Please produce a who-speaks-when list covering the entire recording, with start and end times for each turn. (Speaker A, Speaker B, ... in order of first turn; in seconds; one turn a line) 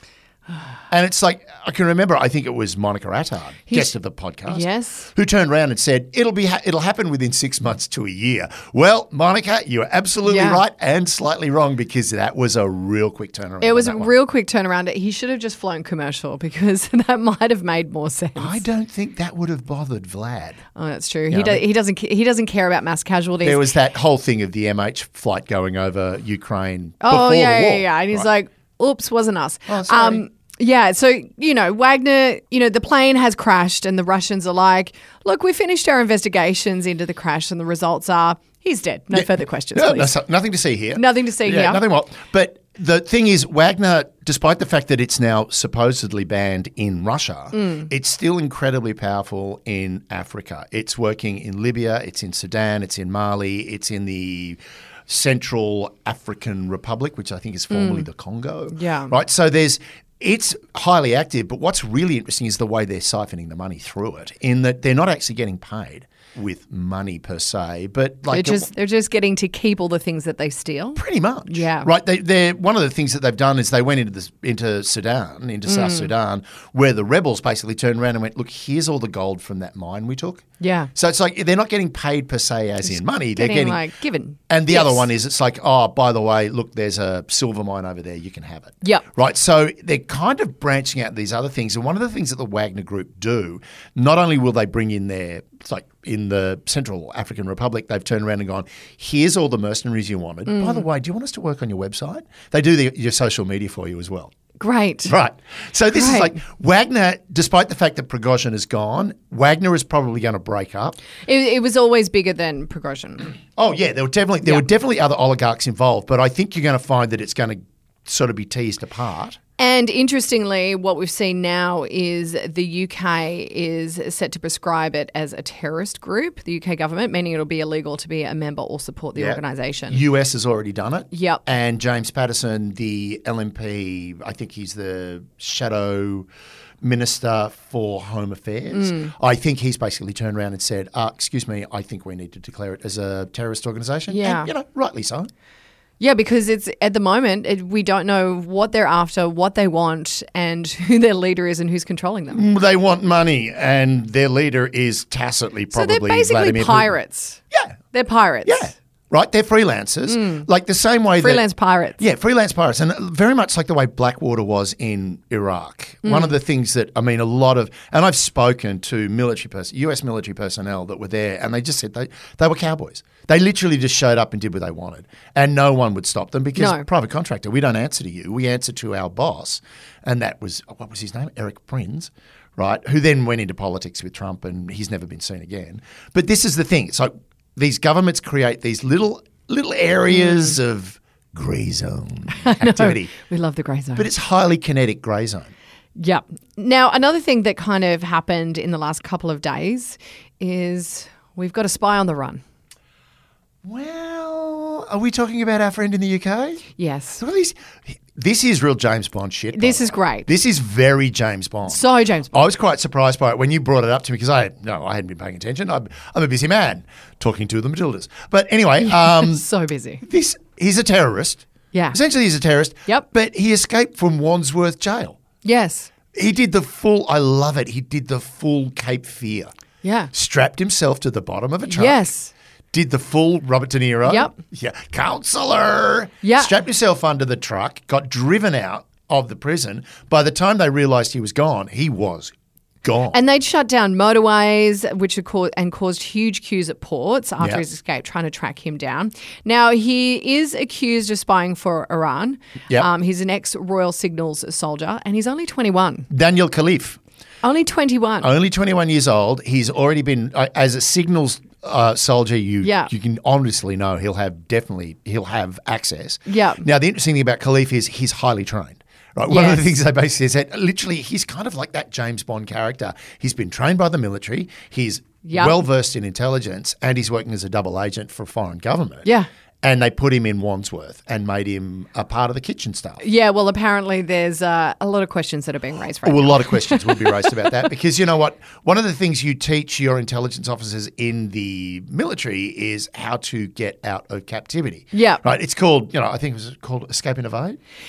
Speaker A: 0.9-14.1
Speaker B: 4.5-5.1
Speaker B: 10.2-10.6
Speaker B: 13.6-18.6
Speaker A: 18.4-20.6
Speaker B: 20.7-23.6
Speaker A: 21.3-21.6
Speaker A: 23.4-28.2
Speaker B: 27.0-40.1
Speaker A: 29.7-30.2
Speaker A: 39.1-68.7
Speaker B: 40.9-41.8
Speaker B: 47.5-47.9
Speaker B: 57.7-58.1
Speaker B: 58.7-59.1
Speaker B: 68.3-71.9
Speaker A: 71.0-83.8
Speaker B: 75.7-76.1
Speaker B: 80.6-80.9
Speaker B: 83.3-85.0
Speaker A: 84.5-104.3
Speaker B: 100.5-100.8
Speaker B: 104.6-105.1
Speaker A: 105.0-111.0
Speaker B: 105.9-106.3
Speaker B: 111.2-113.3
Speaker A: 113.5-119.4
Speaker B: 119.6-130.0
Speaker A: 129.2-136.3
Speaker B: 131.1-131.4
Speaker A: 136.8-145.3
Speaker B: 138.7-139.1
Speaker B: 144.1-144.5
Speaker B: 146.0-152.4
Speaker A: 152.3-156.9
Speaker B: 155.7-157.4
Speaker A: 157.5-157.8
Speaker B: 157.9-158.7
Speaker A: 158.4-161.4
Speaker B: 160.1-160.4
Speaker B: 161.2-162.0
Speaker A: 162.0-193.1
Speaker B: 166.0-166.3
Speaker B: 176.6-176.9
Speaker B: 190.3-190.5
Speaker B: 192.3-194.1
Speaker A: 193.9-195.5
Speaker B: 196.0-202.4
Speaker A: 203.6-206.7
Speaker B: 206.8-207.2
Speaker A: 207.2-219.4
Speaker B: 209.5-210.3
Speaker B: 211.7-212.4
Speaker B: 218.8-220.0
Speaker A: 220.0-225.2
Speaker B: 221.7-222.0
Speaker B: 225.4-225.9
Speaker A: 226.1-229.5
Speaker B: 229.8-230.1
Speaker A: 230.1-232.1
Speaker B: 231.7-232.3
Speaker A: 232.7-243.2
Speaker B: 234.1-234.3
Speaker B: 236.2-236.5
Speaker B: 243.1-256.1
Speaker A: 256.1-257.0
Speaker B: 257.4-258.3
Speaker A: 258.2-279.1
Speaker B: 262.6-262.9
Speaker B: 266.3-266.6
Speaker B: 269.3-269.7
Speaker B: 275.2-275.6
Speaker A: 279.6-283.0
Speaker B: 283.0-287.6
Speaker A: 286.0-297.6
Speaker B: 294.9-295.2